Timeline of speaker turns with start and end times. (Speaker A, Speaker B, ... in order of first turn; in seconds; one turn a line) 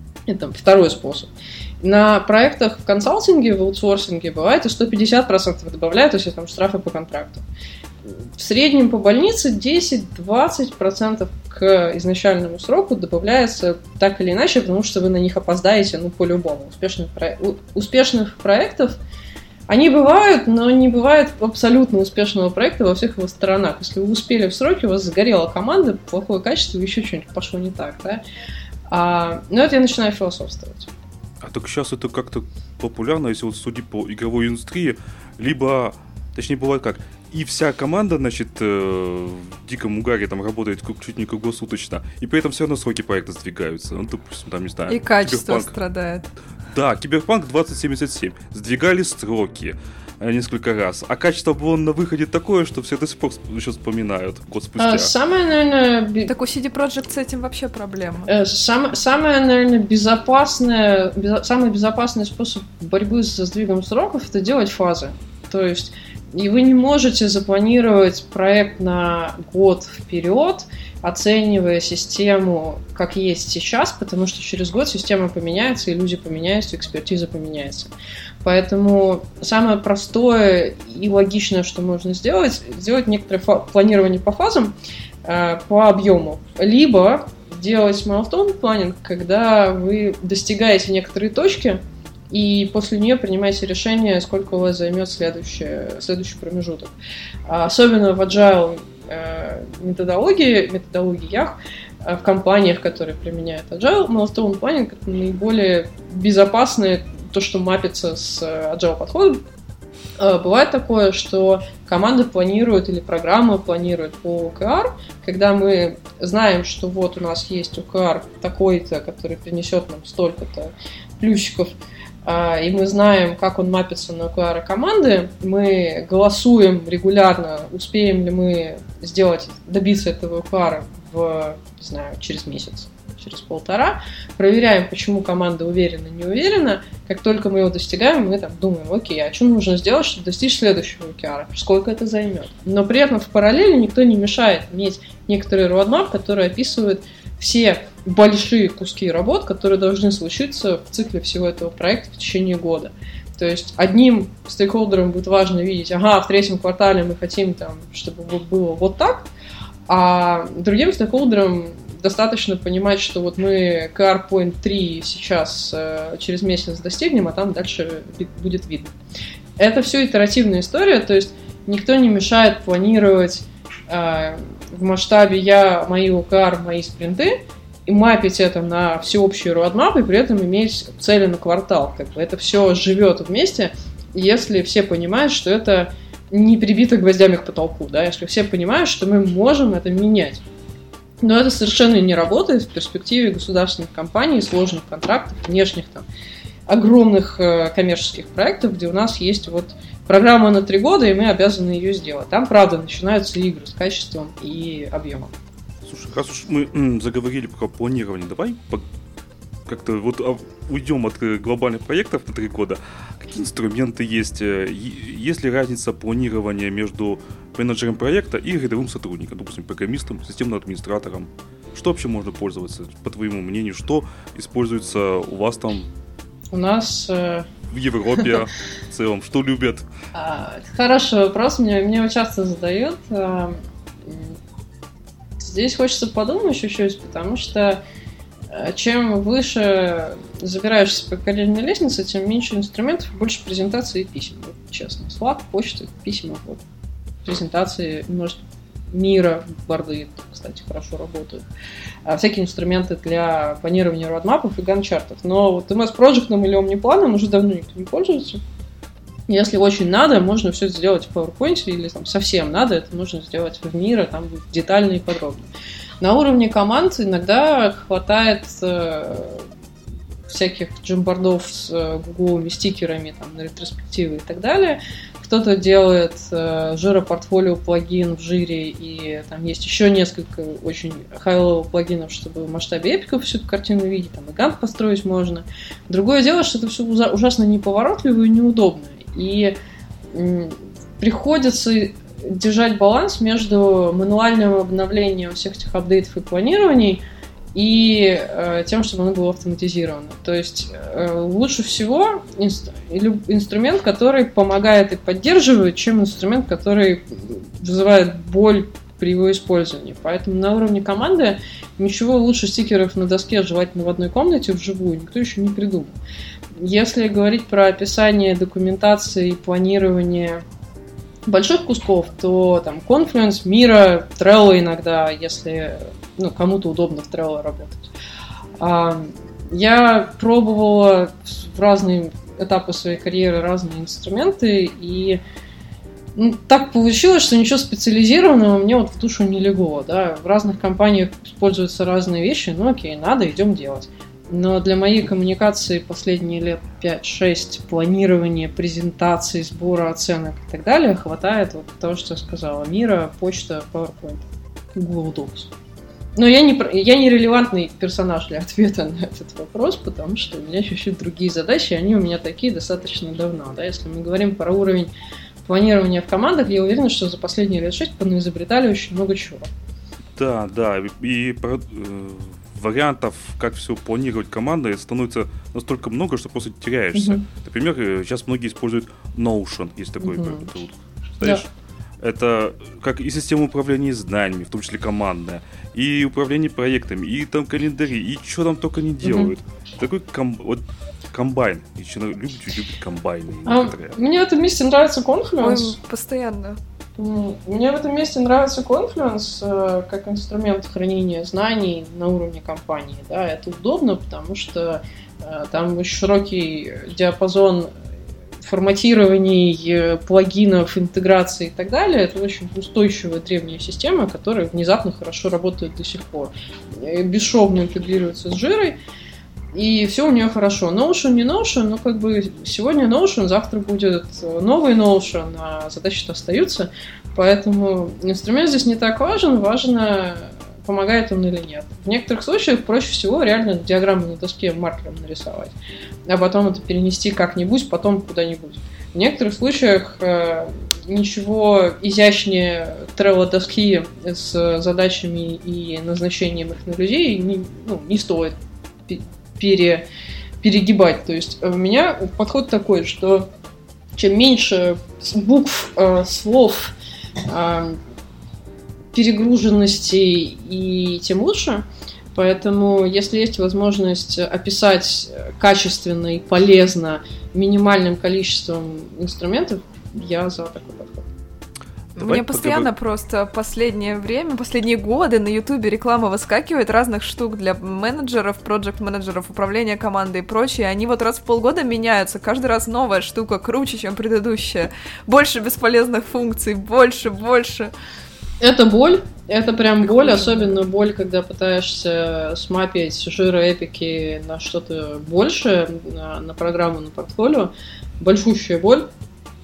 Speaker A: 0.3-7.4
Speaker A: 8.4-19.0
Speaker A: 19.7-28.2
Speaker A: 28.9-30.9
Speaker B: 31.4-45.7
Speaker C: 44.9-46.3
Speaker B: 46.7-55.1
Speaker A: 54.8-56.3
Speaker C: 56.3-58.3
Speaker A: 58.3-77.9
Speaker A: 78.4-96.9
Speaker A: 97.5-109.4
Speaker A: 110.2-121.7
Speaker A: 122.2-159.3
Speaker A: 159.9-168.9
Speaker A: 169.6-190.4
Speaker A: 191.2-196.1
Speaker A: 196.7-205.3
Speaker B: 205.8-208.9
Speaker B: 209.7-225.9
Speaker A: 226.5-227.5
Speaker B: 227.7-229.9
Speaker A: 230.1-234.4
Speaker A: 235.4-237.8
Speaker A: 238.5-246.6
Speaker A: 247.2-251.4
Speaker A: 252.1-258.4
Speaker A: 259.3-265.5
Speaker A: 266.0-269.5
Speaker A: 270.3-289.6
Speaker A: 290.1-297.0
Speaker A: 297.5-316.0
Speaker A: 316.6-320.4
Speaker A: 321.3-327.9
Speaker A: 328.6-335.2
Speaker A: 336.1-355.5
Speaker A: 356.2-364.9
Speaker A: 365.5-369.5
Speaker B: 370.2-381.5
Speaker A: 376.9-377.2
Speaker A: 380.0-380.5
Speaker B: 382.0-394.0
Speaker A: 389.0-389.3
Speaker A: 393.5-395.8
Speaker C: 395.4-396.6
Speaker A: 397.0-407.7
Speaker A: 408.4-418.8
Speaker A: 419.5-435.5
Speaker A: 436.1-448.4
Speaker A: 448.9-449.9
Speaker A: 450.4-453.3
Speaker A: 453.9-457.8
Speaker A: 458.9-471.1
Speaker B: 472.0-472.7
Speaker C: 472.0-487.7
Speaker A: 488.4-498.9